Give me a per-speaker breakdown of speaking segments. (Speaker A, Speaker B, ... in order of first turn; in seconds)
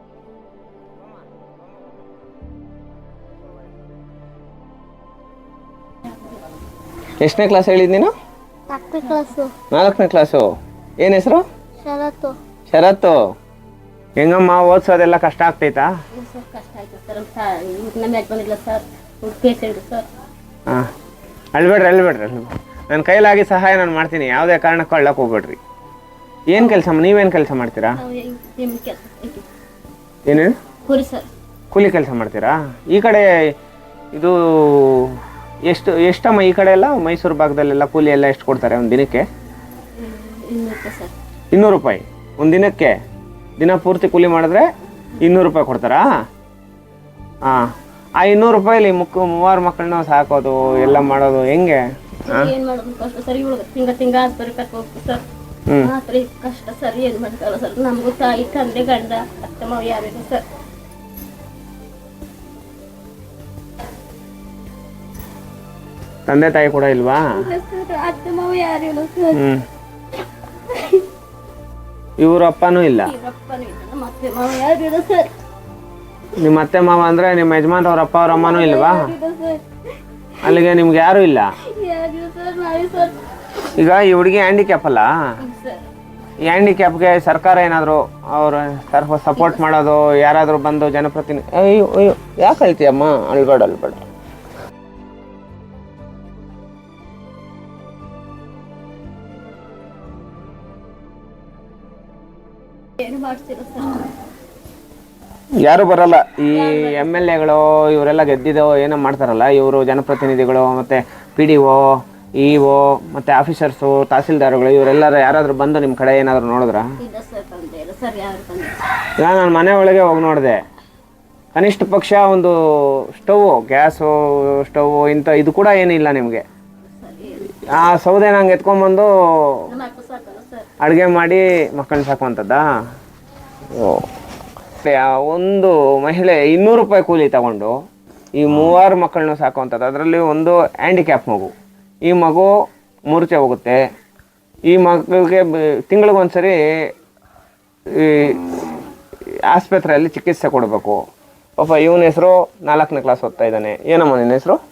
Speaker A: 7.2-8.1, 9.7-10.5, 11.0-11.4, 12.7-13.1, 14.2-15.9, 21.5-25.6, 26.5-28.0, 30.3-30.6, 31.7-33.5, 34.1-39.3, 41.5-43.0, 43.6-44.7, 45.2-46.1, 47.5-52.5, 66.3-67.3, 69.3-69.6, 72.2-73.1, 76.4-79.1, 80.4-81.6, 83.7-85.1, 86.5-94.0, 105.6-116.8, 119.2-120.6, 121.5-126.4, 127.5-129.7, 130.8-132.6, 133.7-134.0, 134.8-137.7, 138.4-141.5, 142.1-142.5, 143.1-143.8, 144.7-146.6, 148.0-148.6, 149.5-151.0, 151.6-154.6
Speaker B: 8.7-9.5, 11.8-12.4, 16.1-20.1, 27.9-29.5, 30.9-31.3, 40.0-41.1, 52.2-55.2, 55.8-60.4, 67.3-69.4, 70.7-71.0, 73.0-75.3, 78.3-79.6, 81.6-83.2, 85.4-85.9, 89.4-89.6, 103.0-104.2, 106.5-107.3, 117.0-118.8, 127.0-127.5, 129.7-130.7